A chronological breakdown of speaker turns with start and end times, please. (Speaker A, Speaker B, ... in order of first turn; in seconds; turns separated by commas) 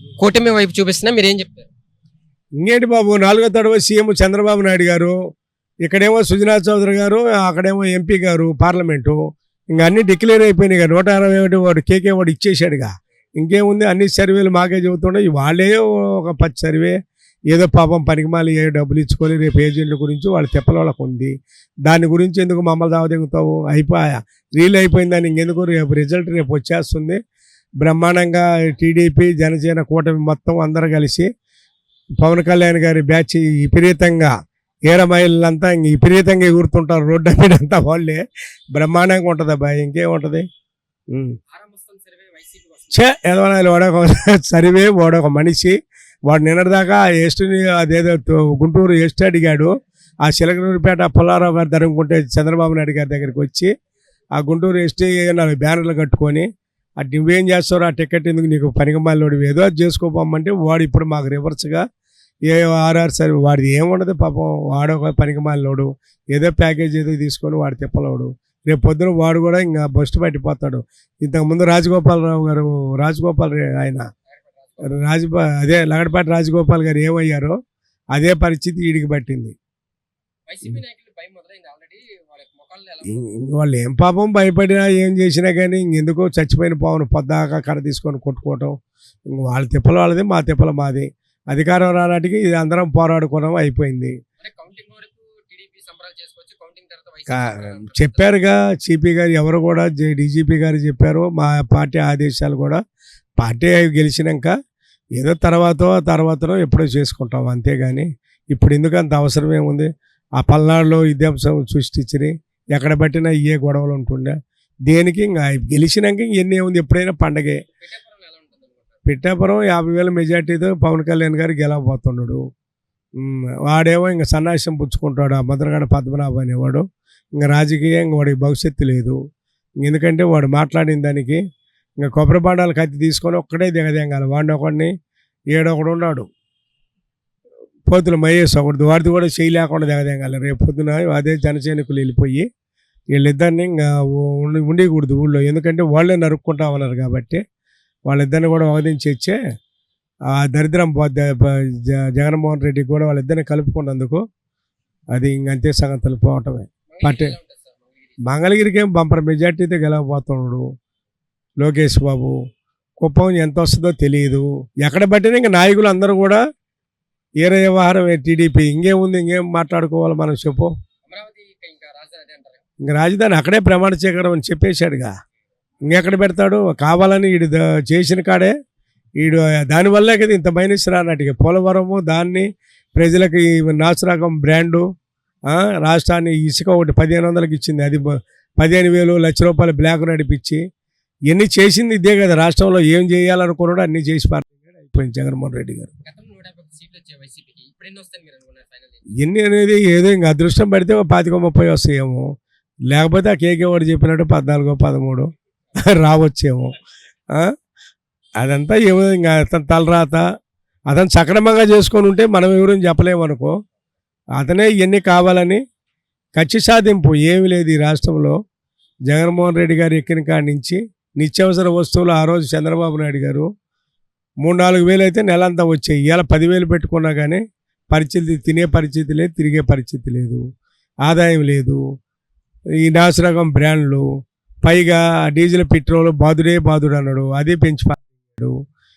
Speaker A: 0.2-1.7, Speaker B: 2.6-5.2, Speaker B: 5.8-9.2, Speaker B: 9.7-16.9, Speaker B: 17.5-21.3, Speaker B: 21.8-27.2, Speaker B: 27.8-31.3, Speaker B: 32.2-34.3, Speaker B: 34.9-40.5, Speaker B: 41.1-41.4, Speaker A: 41.5-43.2, Speaker B: 42.9-45.8, Speaker B: 46.3-49.7, Speaker B: 50.2-53.7, Speaker B: 54.4-56.5, Speaker B: 57.0-61.8, Speaker B: 62.5-74.0, Speaker A: 74.3-75.0, Speaker B: 74.9-77.5, Speaker B: 78.1-79.5, Speaker A: 80.5-83.3, Speaker B: 83.1-88.8, Speaker B: 89.3-94.1, Speaker A: 94.4-98.4, Speaker B: 97.3-102.8, Speaker B: 103.4-104.5, Speaker B: 105.2-114.3, Speaker B: 114.9-117.6, Speaker A: 117.8-119.0, Speaker B: 119.0-122.4, Speaker B: 123.2-126.8, Speaker B: 127.4-129.2, Speaker B: 129.8-131.4, Speaker B: 132.0-134.9, Speaker B: 135.5-136.3, Speaker B: 137.9-142.4, Speaker B: 143.1-147.4, Speaker B: 148.1-149.4, Speaker B: 150.3-154.2, Speaker B: 155.1-157.3, Speaker A: 156.9-158.3, Speaker B: 158.2-160.6, Speaker B: 161.6-162.3, Speaker B: 163.0-166.4, Speaker B: 167.4-170.7, Speaker A: 171.1-172.6, Speaker B: 172.8-175.1, Speaker B: 175.9-178.5, Speaker B: 179.2-184.8, Speaker B: 185.5-190.6, Speaker B: 191.3-195.9, Speaker A: 196.0-199.1, Speaker B: 199.2-202.2, Speaker B: 202.9-206.7, Speaker B: 208.4-210.2, Speaker B: 210.9-213.5, Speaker B: 214.4-215.6, Speaker B: 216.3-218.3, Speaker B: 219.1-223.5, Speaker B: 224.4-230.4, Speaker B: 231.0-231.8, Speaker B: 232.8-234.1, Speaker B: 234.6-238.6